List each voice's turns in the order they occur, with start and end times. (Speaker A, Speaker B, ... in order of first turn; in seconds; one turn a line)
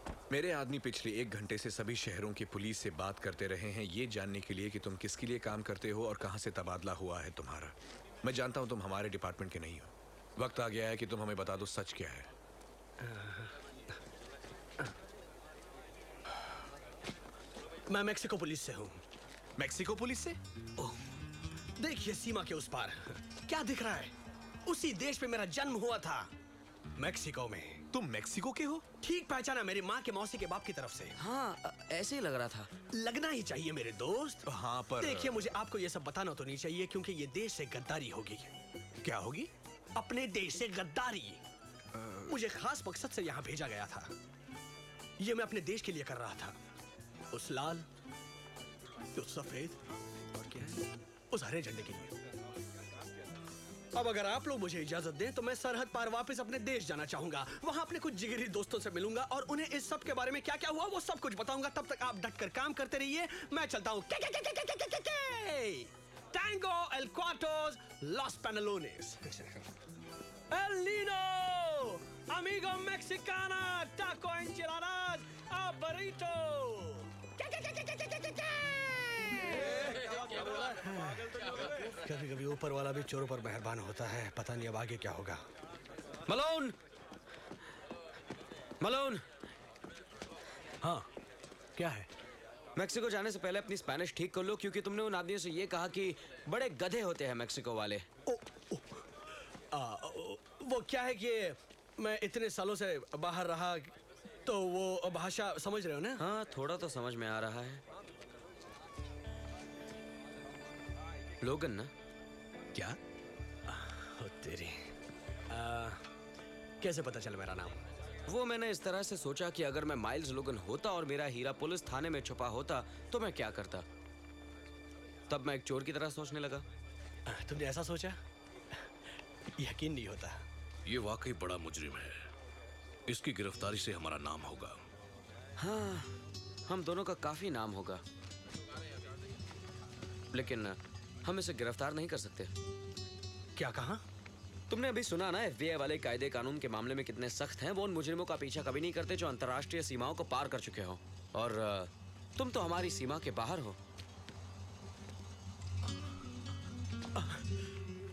Speaker A: 0.3-12.3
Speaker B: 13.0-13.5
Speaker B: 17.9-19.0
Speaker A: 19.6-20.4
Speaker B: 21.8-24.1
Speaker B: 24.6-26.3
Speaker B: 27.0-27.8
Speaker A: 27.9-28.8
Speaker B: 29.0-31.1
Speaker C: 31.2-32.7
Speaker B: 32.9-34.5
Speaker A: 34.4-35.4
Speaker B: 35.0-38.5
Speaker A: 39.0-39.5
Speaker B: 39.9-41.4
Speaker B: 42.3-44.1
Speaker B: 45.2-46.5
Speaker B: 47.3-47.8
Speaker B: 49.1-49.8
Speaker B: 50.3-52.1
Speaker B: 53.9-69.6
Speaker B: 70.5-77.1
Speaker B: 79.1-85.4
Speaker C: 86.3-86.8
Speaker C: 88.8-89.2
Speaker B: 91.8-92.1
Speaker C: 92.7-98.0
Speaker B: 98.2-99.0
Speaker B: 99.7-103.9
Speaker B: 104.5-106.2
Speaker C: 106.2-107.8
Speaker C: 111.4-111.9
Speaker B: 113.7-114.8
Speaker B: 115.5-116.0
Speaker B: 116.8-117.8
Speaker C: 118.3-123.8
Speaker C: 125.3-126.6
Speaker B: 127.3-128.2
Speaker B: 129.6-130.4
Speaker D: 130.8-132.3
Speaker D: 133.1-134.8
Speaker C: 135.6-136.1
Speaker C: 136.7-138.0
Speaker C: 140.3-142.5
Speaker B: 143.6-144.0
Speaker C: 144.7-153.8
Speaker B: 157.2-157.4